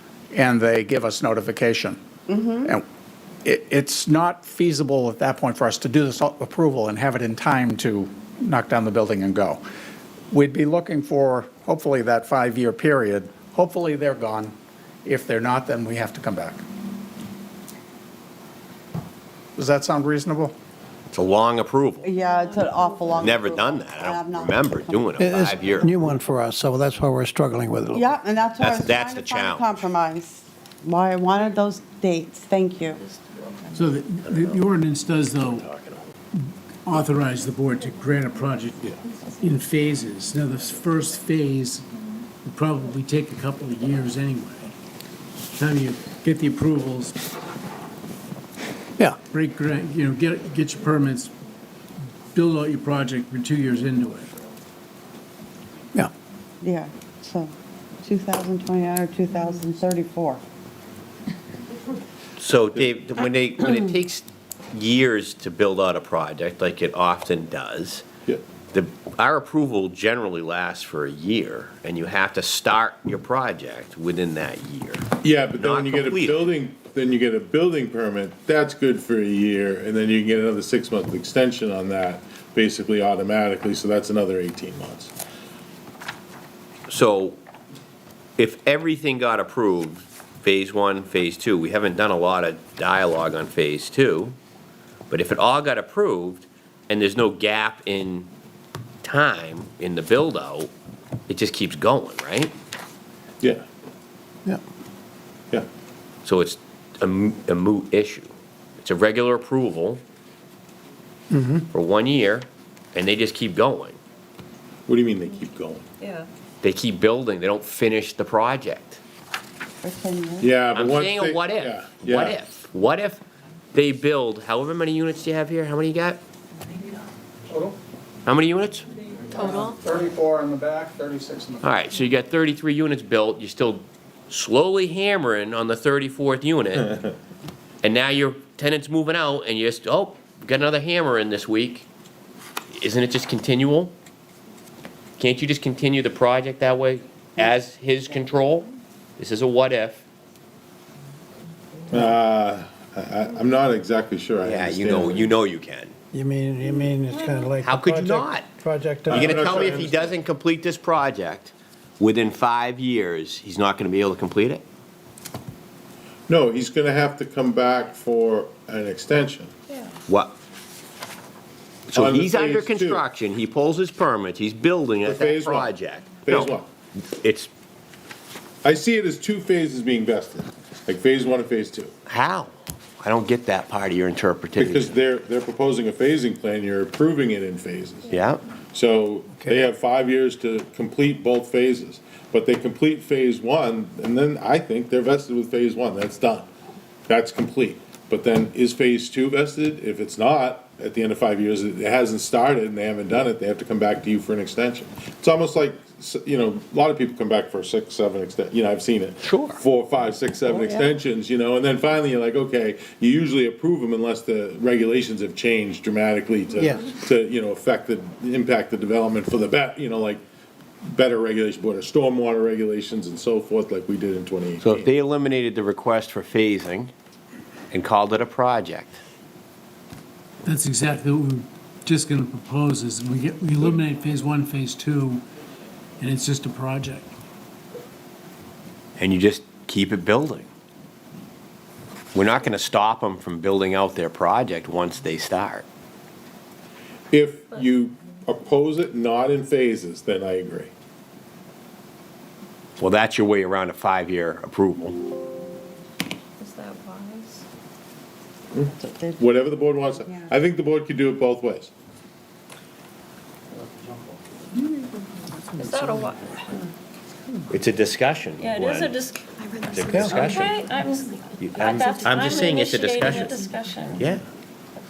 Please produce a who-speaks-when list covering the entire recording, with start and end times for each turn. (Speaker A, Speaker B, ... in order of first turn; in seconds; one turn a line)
Speaker A: 0.3-2.0
Speaker B: 2.3-2.7
Speaker A: 3.4-9.6
Speaker A: 10.3-16.6
Speaker A: 19.6-20.5
Speaker C: 21.1-22.1
Speaker B: 22.0-25.1
Speaker D: 22.2-23.6
Speaker C: 23.2-25.9
Speaker E: 25.1-28.1
Speaker B: 27.9-33.0
Speaker C: 28.6-29.7
Speaker F: 33.7-35.7
Speaker C: 35.7-36.0
Speaker F: 36.4-41.9
Speaker F: 42.4-44.7
Speaker F: 45.6-47.1
Speaker F: 49.2-51.3
Speaker F: 52.3-54.3
Speaker B: 56.6-57.5
Speaker B: 58.0-60.4
Speaker C: 62.4-68.0
Speaker C: 68.7-76.5
Speaker G: 75.2-85.1
Speaker C: 86.9-87.4
Speaker C: 88.4-94.3
Speaker C: 95.1-98.3
Speaker C: 99.0-100.7
Speaker C: 101.3-102.5
Speaker C: 106.2-110.0
Speaker E: 111.3-111.7
Speaker C: 111.7-114.0
Speaker G: 114.9-115.8
Speaker D: 116.0-116.2
Speaker C: 116.6-119.0
Speaker B: 119.8-120.6
Speaker G: 120.4-122.4
Speaker C: 120.7-123.2
Speaker C: 123.7-126.2
Speaker A: 127.5-127.8
Speaker C: 128.2-128.9
Speaker A: 129.3-131.7
Speaker C: 131.6-137.0
Speaker C: 137.8-141.8
Speaker C: 142.7-143.9
Speaker C: 145.2-150.0
Speaker G: 151.9-155.2
Speaker C: 154.4-155.9
Speaker E: 156.1-159.6
Speaker C: 157.6-158.5
Speaker G: 159.1-160.2
Speaker C: 159.2-164.6
Speaker G: 166.3-169.5
Speaker C: 170.1-170.3
Speaker C: 171.9-177.5
Speaker G: 171.9-173.0
Speaker G: 175.0-175.7
Speaker G: 176.2-176.7
Speaker G: 178.6-181.9
Speaker C: 182.1-184.9
Speaker G: 184.6-188.1
Speaker C: 188.1-188.4
Speaker G: 188.7-196.5
Speaker E: 189.4-189.7
Speaker G: 197.1-220.2
Speaker C: 209.2-209.6
Speaker E: 210.5-210.9
Speaker E: 216.6-216.9
Speaker G: 220.8-224.9
Speaker C: 224.6-226.9
Speaker C: 227.7-229.0
Speaker F: 230.4-235.2
Speaker F: 236.0-237.1
Speaker C: 239.0-240.5
Speaker C: 242.1-245.7
Speaker G: 247.1-250.7
Speaker C: 252.8-255.0
Speaker D: 256.4-257.4
Speaker G: 258.5-261.7
Speaker B: 258.8-259.2
Speaker D: 265.6-266.6
Speaker C: 267.5-268.9
Speaker D: 268.4-274.1
Speaker C: 269.7-270.6
Speaker E: 269.9-270.2
Speaker C: 271.4-274.2